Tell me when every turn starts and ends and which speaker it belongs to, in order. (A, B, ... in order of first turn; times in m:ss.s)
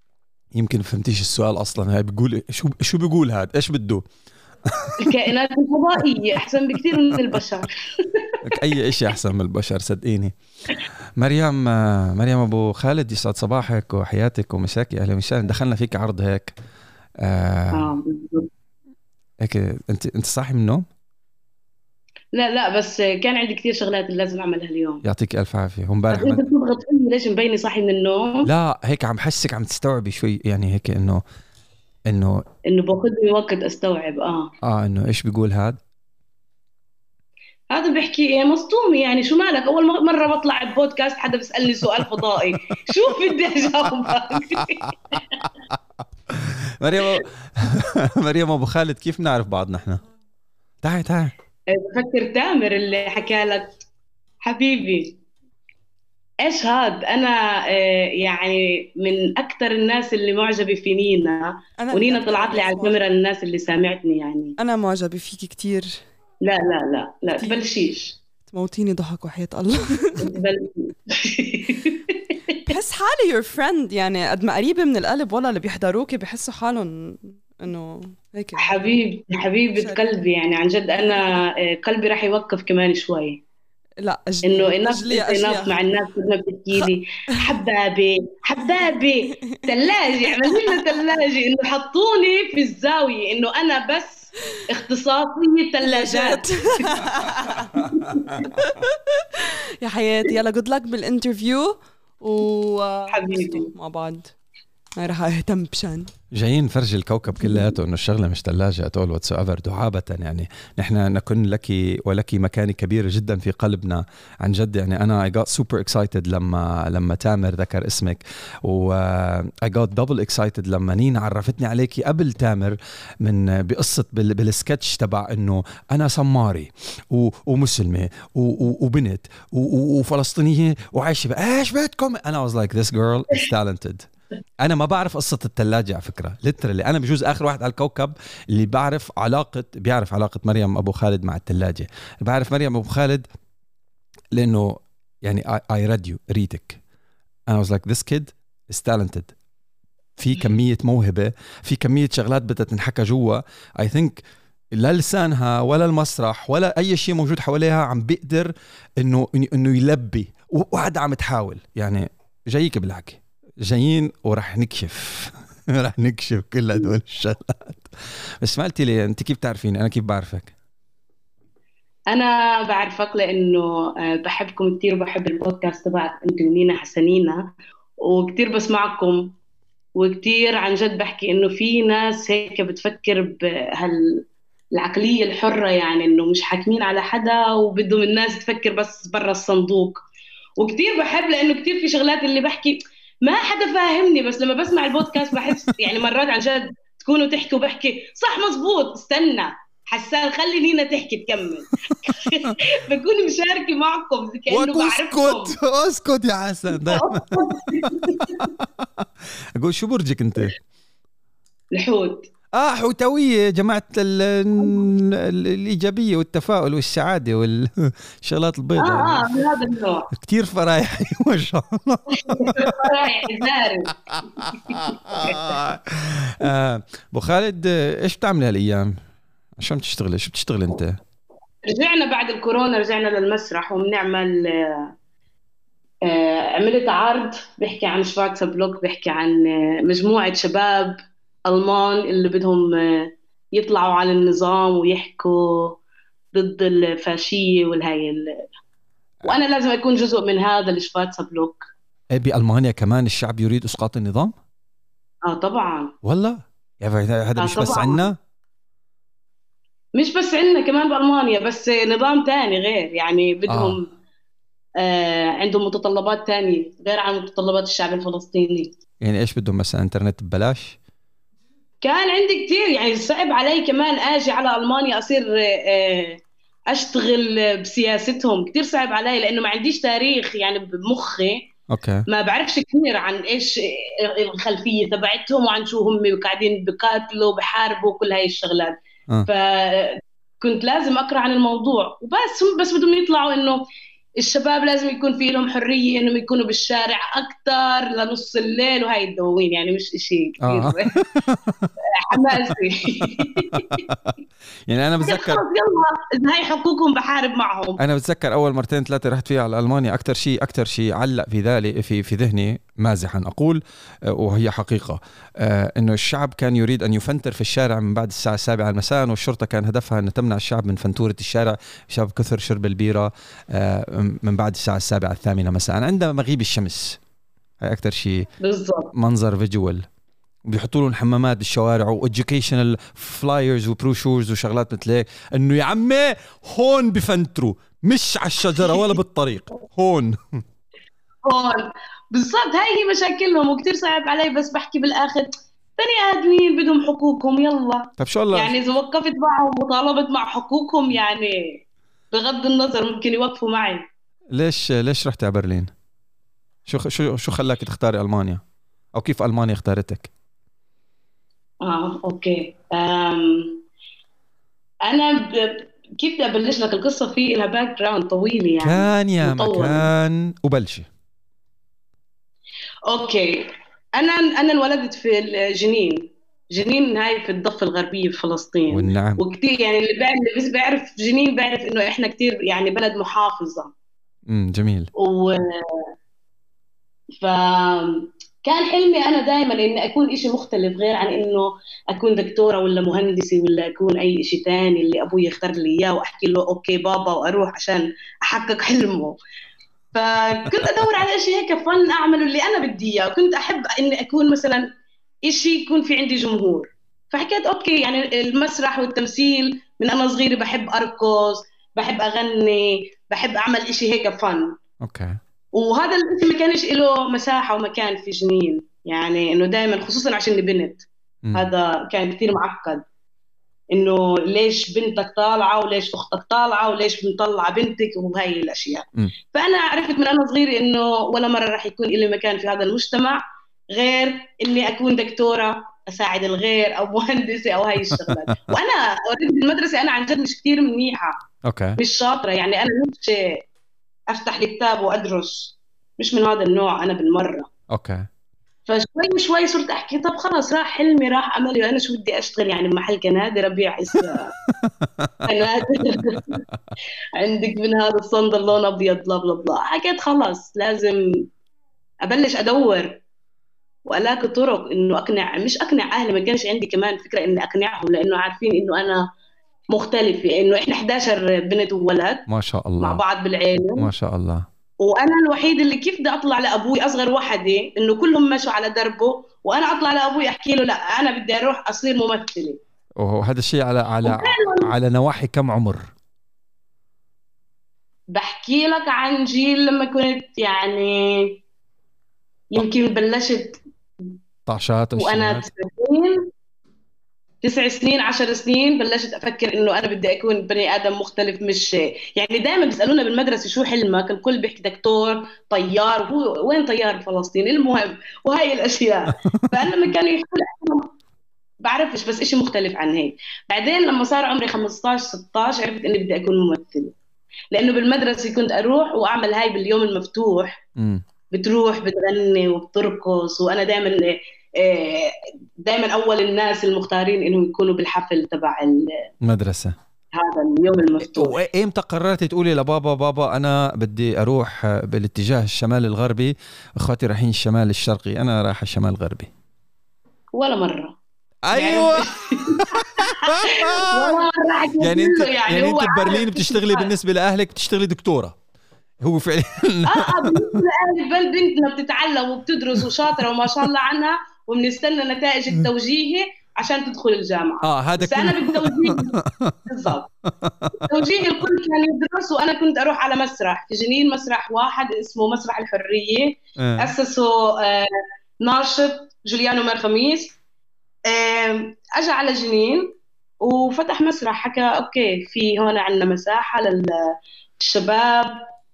0:00.5-0:04.0 A
0:04.7-0:05.2 A
0:05.0-0:08.4 B
0:06.9-0:07.3 A
0:08.4-0:10.3 A
0:11.2-0:16.5 A
0:17.2-0:17.9 A
0:17.7-0:18.5 B
0:19.4-0:20.8 A
0:22.3-0:25.0 B
0:25.0-0:26.4 A
0:26.1-0:28.5 B
0:28.4-0:31.2 A
0:32.1-0:32.4 A
0:32.6-0:34.5 B
0:34.6-0:35.8 A
0:37.7-0:45.5 B
0:44.1-0:45.8 A
0:46.3-0:50.0 A
0:50.8-0:51.3 A
0:51.7-0:53.8 B
0:54.4-0:55.2 B
0:56.4-1:04.5 B
1:01.8-1:03.0 C
1:04.6-1:06.0 C
1:06.4-1:08.2 B
1:07.3-1:07.6 C
1:08.5-1:10.4 C
1:10.2-1:12.6 B
1:12.6-1:18.8 C
1:18.6-1:23.4 B
1:19.7-1:20.0 C
1:24.0-1:25.8 C
1:24.4-1:36.9 B
1:26.7-1:27.6 C
1:30.2-1:31.0 C
1:35.8-1:44.3 C
1:37.8-1:38.5 B
1:43.1-1:43.7 B
1:45.0-1:46.1 C
1:46.3-2:14.1 A
2:14.6-2:23.2 A
2:24.3-2:26.8 A
2:27.5-2:29.3 A
2:30.2-2:34.2 A
2:34.7-2:47.9 A
2:48.4-2:50.5 A
2:52.1-2:57.5 B
2:58.0-2:59.3 B
3:00.0-3:10.0 B
3:10.6-3:25.5 B
3:22.0-3:22.6 A
3:24.5-3:29.0 A
3:26.7-3:28.5 B
3:29.6-3:30.5 A
3:31.7-3:32.3 B
3:32.5-3:39.3 A
3:38.8-3:40.1 B
3:40.1-3:43.5 A
3:42.2-3:43.9 B
3:44.0-3:49.0 A
3:44.7-3:45.6 B
3:49.6-3:51.0 A
3:51.6-3:54.9 B
3:56.0-4:05.8 B
4:06.3-4:08.5 B
4:09.2-4:11.7 B
4:12.1-4:14.3 A
4:15.2-4:15.9 B
4:16.0-4:18.2 A
4:17.4-4:18.1 B
4:20.0-4:23.9 B
4:23.5-4:23.8 A
4:24.8-4:28.8 B
4:29.0-4:30.8 A
4:31.8-4:41.5 B
4:41.7-4:42.0 A
4:42.1-4:53.6 B
4:54.2-5:01.0 B
5:00.4-5:04.2 A
5:01.9-5:03.8 B
5:04.7-5:05.4 A
5:05.0-5:07.8 B
5:07.8-5:27.0 A
5:27.6-5:28.3 A
5:28.4-5:28.9 B
5:28.9-5:29.8 A
5:30.4-5:40.4 A
5:41.2-5:53.9 B
5:48.0-5:48.5 A
5:54.3-5:55.7 A
5:56.6-5:58.4 A
5:58.9-6:00.1 A
6:01.6-6:03.6 B
6:04.8-6:09.9 B
6:08.6-6:10.9 A
6:12.9-6:23.7 B
6:18.7-6:19.2 A
6:24.3-6:24.9 A
6:25.0-6:25.9 B
6:27.1-6:39.2 B
6:39.9-6:44.7 B
6:45.2-6:54.6 B
6:54.8-6:55.2 A
6:55.5-7:02.8 B
7:01.2-7:01.5 A
7:03.7-7:21.2 B
7:21.4-7:21.8 A
7:21.8-7:23.4 B
7:24.1-7:27.5 B
7:27.7-7:28.1 A
7:28.7-7:34.3 B
7:34.5-7:36.4 A
7:35.2-7:36.4 B
7:37.2-7:41.2 B
7:42.0-7:43.0 B
7:43.8-7:49.0 B
7:49.7-7:52.3 B
7:52.3-7:53.0 A
7:52.8-7:53.9 B
7:53.8-7:54.4 A
7:54.8-8:02.6 B
8:03.0-8:05.8 A
8:04.0-8:04.7 B
8:08.1-8:11.4 B
8:12.5-8:14.2 B
8:14.5-8:15.5 A
8:15.0-8:16.3 B
8:17.4-8:30.9 B
8:31.6-8:36.9 B
8:37.5-8:40.6 B
8:40.8-8:41.0 A
8:41.3-8:48.9 B
8:49.2-8:49.8 A
8:50.1-8:51.4 B
8:51.0-8:59.3 A
9:00.3-9:01.0 B
9:01.4-9:04.2 A
9:01.5-9:06.9 B
9:04.8-9:08.4 A
9:09.0-9:10.6 A
9:09.8-9:20.1 B
9:17.6-9:19.6 A
9:20.3-9:20.9 A
9:20.7-9:30.4 B
9:26.6-9:26.9 A
9:31.0-9:36.9 B
9:37.6-9:38.4 B